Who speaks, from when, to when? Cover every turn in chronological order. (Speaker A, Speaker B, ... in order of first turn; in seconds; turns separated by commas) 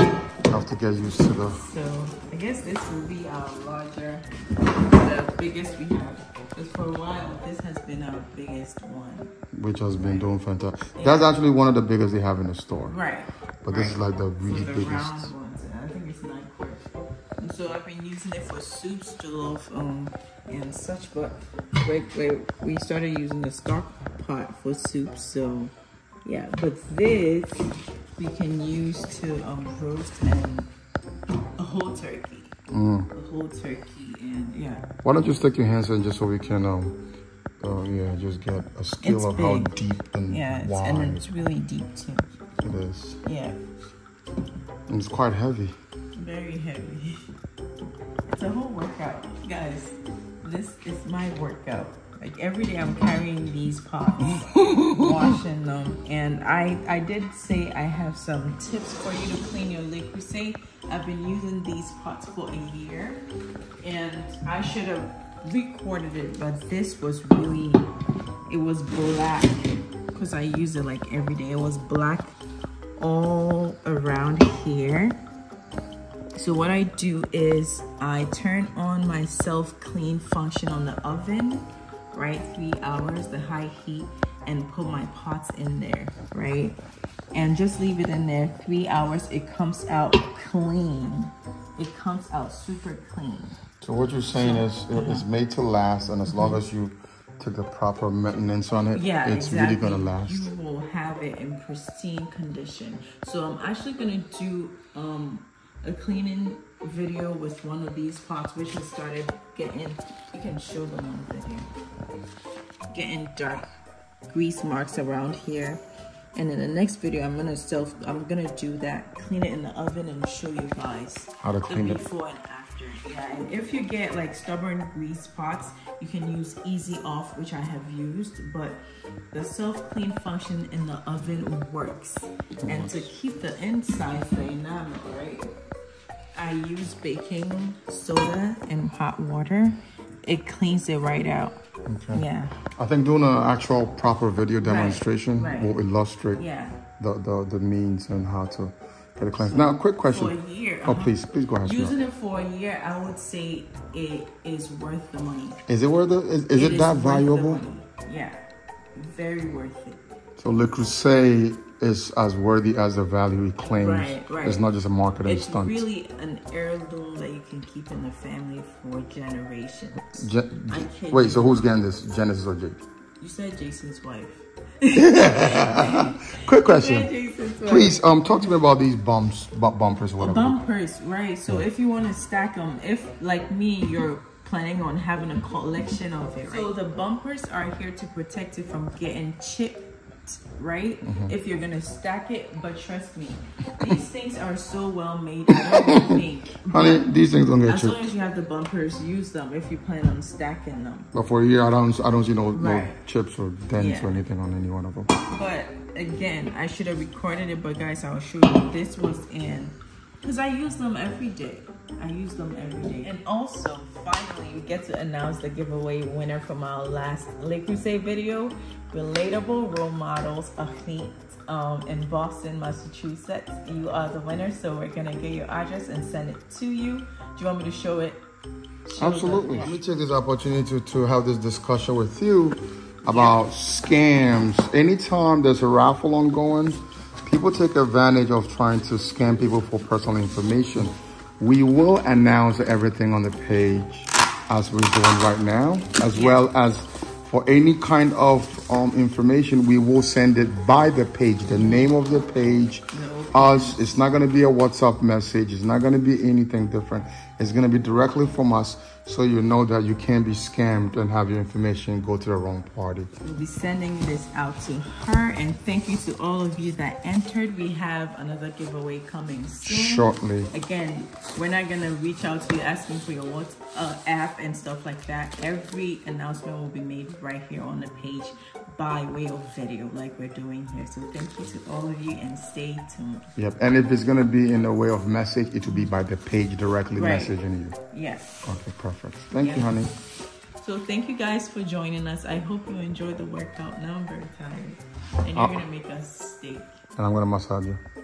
Speaker A: 0.4-1.6, Speaker B: 1.5-4.3, Speaker B: 4.8-9.3, Speaker A: 9.5-12.9, Speaker B: 9.9-10.3, Speaker B: 10.9-11.3, Speaker B: 12.9-25.7, Speaker A: 13.6-15.3, Speaker B: 26.2-30.7, Speaker B: 31.6-32.5, Speaker A: 32.7-33.1, Speaker B: 33.1-34.9, Speaker A: 35.0-37.0, Speaker A: 37.6-41.2, Speaker B: 39.0-39.7, Speaker B: 40.3-42.3, Speaker A: 42.6-43.2, Speaker B: 43.2-43.6, Speaker A: 44.9-45.7, Speaker B: 46.1-47.2, Speaker B: 48.3-63.2, Speaker B: 63.8-67.9, Speaker B: 68.5-72.3, Speaker B: 73.0-75.2, Speaker B: 76.3-86.8, Speaker B: 87.3-93.6, Speaker A: 93.8-100.5, Speaker B: 94.3-95.2, Speaker B: 96.3-96.6, Speaker B: 98.9-111.7, Speaker B: 112.9-113.7, Speaker B: 114.3-115.8, Speaker B: 116.3-128.8, Speaker A: 121.4-122.0, Speaker B: 129.3-135.5, Speaker A: 132.6-133.1, Speaker B: 136.3-141.6, Speaker A: 141.9-146.4, Speaker B: 142.1-142.6, Speaker B: 144.6-145.8, Speaker B: 146.3-146.8, Speaker A: 147.0-152.0, Speaker B: 149.4-155.6, Speaker A: 155.7-157.6, Speaker B: 156.5-158.4, Speaker B: 158.9-160.2, Speaker A: 160.4-165.8, Speaker B: 163.6-164.7, Speaker B: 165.2-171.6, Speaker A: 170.1-172.8, Speaker B: 173.2-178.4, Speaker A: 174.9-180.6, Speaker B: 180.2-201.1, Speaker A: 191.0-191.3, Speaker A: 195.5-198.1, Speaker A: 201.1-205.1, Speaker B: 202.5-203.0, Speaker B: 203.8-204.2, Speaker B: 205.3-228.2, Speaker B: 228.9-229.8, Speaker A: 229.0-263.1, Speaker B: 233.1-233.4, Speaker B: 246.1-246.4, Speaker B: 251.5-251.9, Speaker B: 252.9-254.0, Speaker B: 263.2-283.3, Speaker A: 269.6-270.5, Speaker A: 283.4-287.8, Speaker B: 286.9-287.4, Speaker B: 287.9-288.5, Speaker A: 288.4-289.9, Speaker B: 289.4-289.8, Speaker B: 290.6-296.8, Speaker A: 295.3-295.6, Speaker A: 297.0-297.8